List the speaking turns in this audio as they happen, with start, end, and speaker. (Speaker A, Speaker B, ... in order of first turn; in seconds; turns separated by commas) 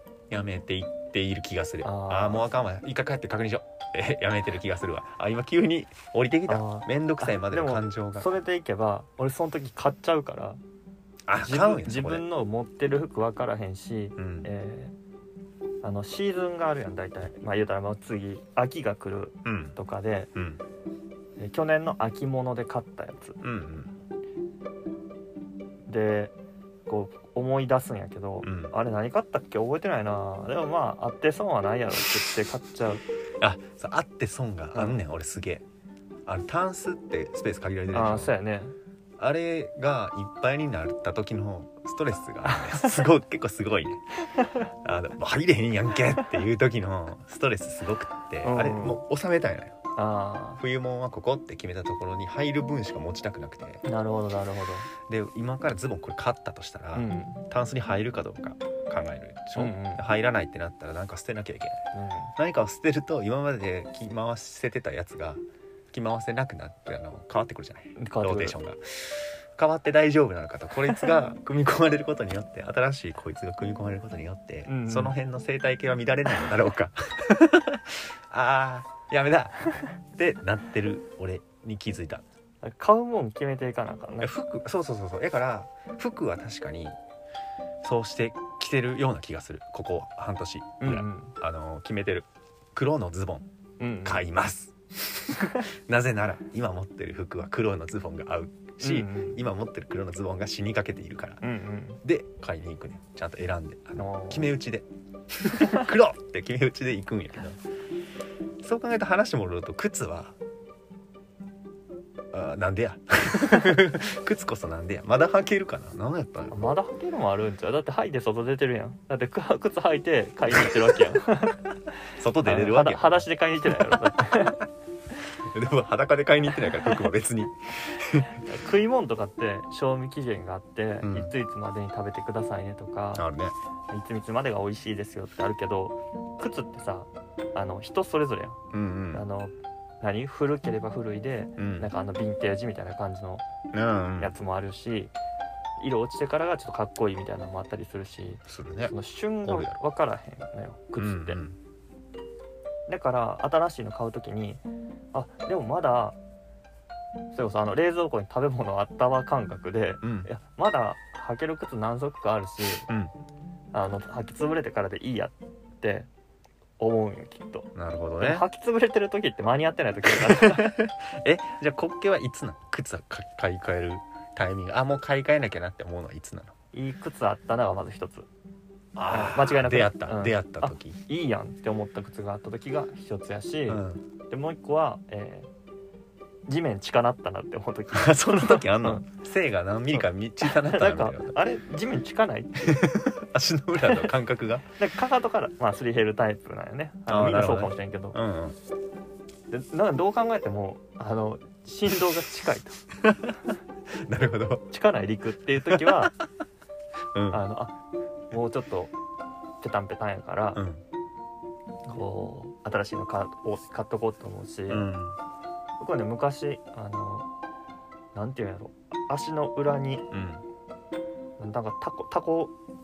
Speaker A: 0.3-8.3, Speaker B: 1.8-2.5, Speaker B: 6.5-10.6, Speaker A: 11.3-12.2, Speaker B: 11.4-14.9, Speaker A: 14.2-14.5, Speaker B: 15.8-20.3, Speaker A: 19.4-19.8, Speaker A: 20.4-20.6, Speaker B: 21.4-23.4, Speaker A: 23.4-23.9, Speaker B: 25.9-26.3, Speaker B: 26.9-33.0, Speaker A: 28.4-28.7, Speaker A: 33.4-35.6, Speaker A: 36.3-38.4, Speaker B: 37.9-38.8, Speaker A: 39.2-44.0, Speaker B: 42.5-43.0, Speaker A: 44.8-49.8, Speaker B: 48.4-49.0, Speaker B: 50.0-50.6, Speaker A: 50.6-53.8, Speaker B: 53.8-54.9, Speaker A: 55.1-61.9, Speaker B: 56.9-57.5, Speaker B: 59.6-60.0, Speaker B: 61.9-62.3, Speaker A: 62.4-82.2, Speaker B: 68.0-68.6, Speaker B: 74.7-75.2, Speaker B: 82.6-84.3, Speaker A: 84.2-87.0, Speaker A: 87.8-93.5, Speaker B: 90.8-91.3, Speaker B: 93.8-94.3, Speaker A: 94.0-101.4, Speaker B: 98.8-99.4, Speaker B: 101.4-102.0, Speaker A: 102.0-107.6, Speaker B: 104.0-104.5, Speaker A: 108.6-110.3, Speaker A: 112.3-116.7, Speaker B: 116.5-121.6, Speaker A: 122.2-123.3, Speaker B: 122.4-124.6, Speaker A: 125.4-128.4, Speaker B: 128.3-133.3, Speaker A: 131.0-131.3, Speaker A: 133.2-133.5, Speaker B: 133.9-138.6, Speaker A: 138.7-139.2, Speaker B: 139.1-143.4, Speaker A: 141.6-141.9, Speaker A: 143.7-144.3, Speaker B: 144.2-145.1, Speaker B: 145.8-151.4, Speaker A: 148.5-149.8, Speaker A: 151.0-151.6, Speaker B: 152.9-156.2, Speaker B: 157.3-162.9, Speaker A: 160.0-160.3, Speaker B: 163.7-166.1, Speaker B: 166.8-170.8, Speaker A: 167.7-168.5, Speaker A: 170.1-176.5, Speaker B: 176.7-178.3, Speaker A: 178.9-181.0, Speaker B: 179.1-185.5, Speaker A: 183.7-184.0, Speaker B: 186.5-189.1, Speaker A: 187.9-191.4, Speaker B: 189.9-192.9, Speaker A: 192.7-194.7, Speaker B: 194.8-198.2, Speaker A: 197.1-198.6, Speaker B: 199.5-202.8, Speaker A: 203.0-203.3, Speaker A: 203.9-204.7, Speaker B: 204.7-206.1, Speaker A: 205.7-206.1, Speaker A: 207.1-207.4, Speaker B: 207.3-207.8, Speaker B: 208.3-208.9, Speaker B: 209.6-210.6, Speaker A: 210.6-210.8, Speaker B: 211.9-214.9, Speaker A: 214.7-215.2, Speaker B: 215.8-217.3, Speaker B: 218.1-220.1, Speaker A: 220.1-220.4, Speaker B: 221.4-222.5